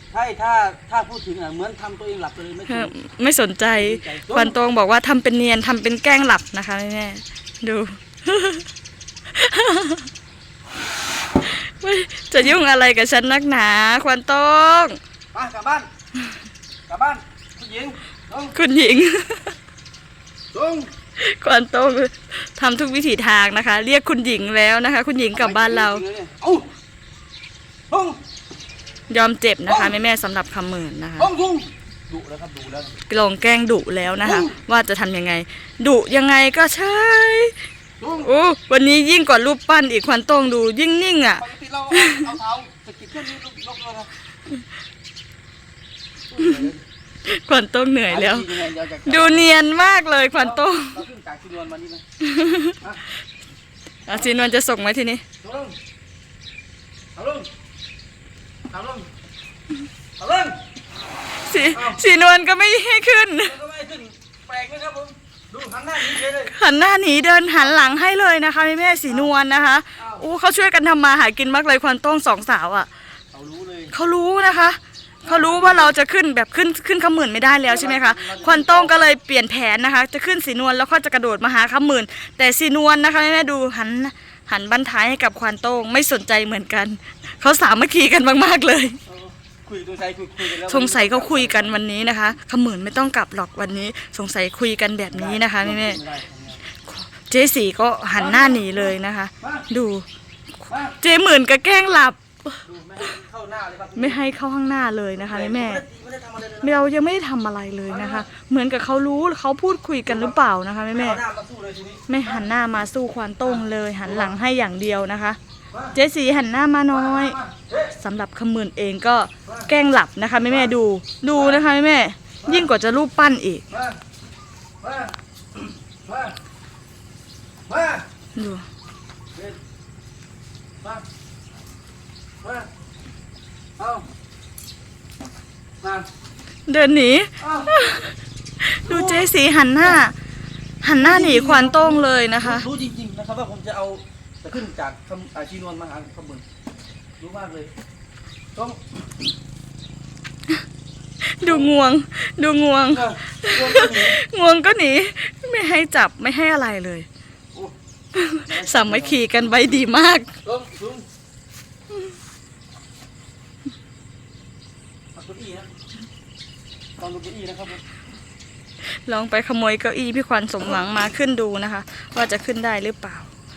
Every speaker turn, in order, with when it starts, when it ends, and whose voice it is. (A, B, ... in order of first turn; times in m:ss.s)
0:00.1-0:02.9 A
0:02.7-0:08.7 B
0:03.8-0:04.5 A
0:09.3-0:10.1 B
0:11.4-0:15.0 B
0:15.3-0:15.9 A
0:16.9-0:18.6 A
0:18.5-0:19.6 B
0:20.5-0:20.9 A
0:21.2-0:26.0 B
0:25.3-0:26.7 A
0:27.9-0:28.2 A
0:29.1-0:31.3 B
0:29.7-0:30.0 A
0:31.2-0:33.0 A
0:33.1-0:37.6 B
0:34.2-0:34.6 A
0:38.0-0:38.3 A
0:38.2-0:42.3 B
0:41.4-0:44.1 A
0:46.3-0:46.8 A
0:46.4-0:46.7 B
0:47.2-0:51.0 B
0:48.1-0:49.5 A
0:50.4-0:52.0 A
0:52.2-0:52.8 B
0:52.8-0:53.0 A
0:54.1-0:55.2 B
0:55.4-0:55.7 A
0:57.2-0:57.5 A
0:58.7-0:59.1 A
1:00.2-1:00.6 A
1:01.4-1:03.6 B
1:01.7-1:02.0 A
1:03.4-1:06.5 A
1:06.4-1:12.9 B
1:10.0-1:10.2 A
1:13.3-1:13.9 A
1:13.9-1:29.0 B
1:15.2-1:16.0 A
1:17.7-1:19.1 A
1:29.1-1:31.8 A
1:30.5-1:36.0 B
1:35.1-1:36.6 A
1:36.8-1:40.1 B
1:38.2-1:39.6 A
1:40.7-1:41.0 A
1:40.8-1:43.0 B
1:42.6-1:44.2 A
1:43.9-1:45.8 B
1:45.2-1:46.9 A
1:46.6-1:51.2 B
1:47.9-1:48.3 A
1:50.1-1:50.4 A
1:50.9-1:52.4 A
1:52.1-1:55.4 B
1:53.4-1:54.3 A
1:55.7-1:56.0 A
1:55.9-1:57.4 B
1:56.9-1:58.0 A
1:58.0-2:03.6 B
2:00.4-2:00.7 A
2:01.3-2:01.6 A
2:02.4-2:02.7 A
2:03.7-2:04.0 A
2:04.8-2:06.3 A
2:07.7-2:08.0 A
2:08.4-2:08.6 B
2:12.4-2:12.7 A
2:13.8-2:14.0 A
2:15.8-2:16.1 A
2:16.7-2:20.2 B
2:17.4-2:17.8 A
2:18.8-2:19.3 A
2:20.8-2:22.7 B
2:21.0-2:26.4 A
2:27.2-2:27.7 A
2:28.6-2:28.9 A
2:31.3-2:37.1 B
2:31.4-2:31.7 A
2:32.9-2:34.2 A
2:38.1-2:40.3 B
2:38.4-2:39.6 A
2:40.4-2:41.0 A
2:45.1-2:45.7 A
2:47.0-2:47.8 A
2:48.9-2:53.3 B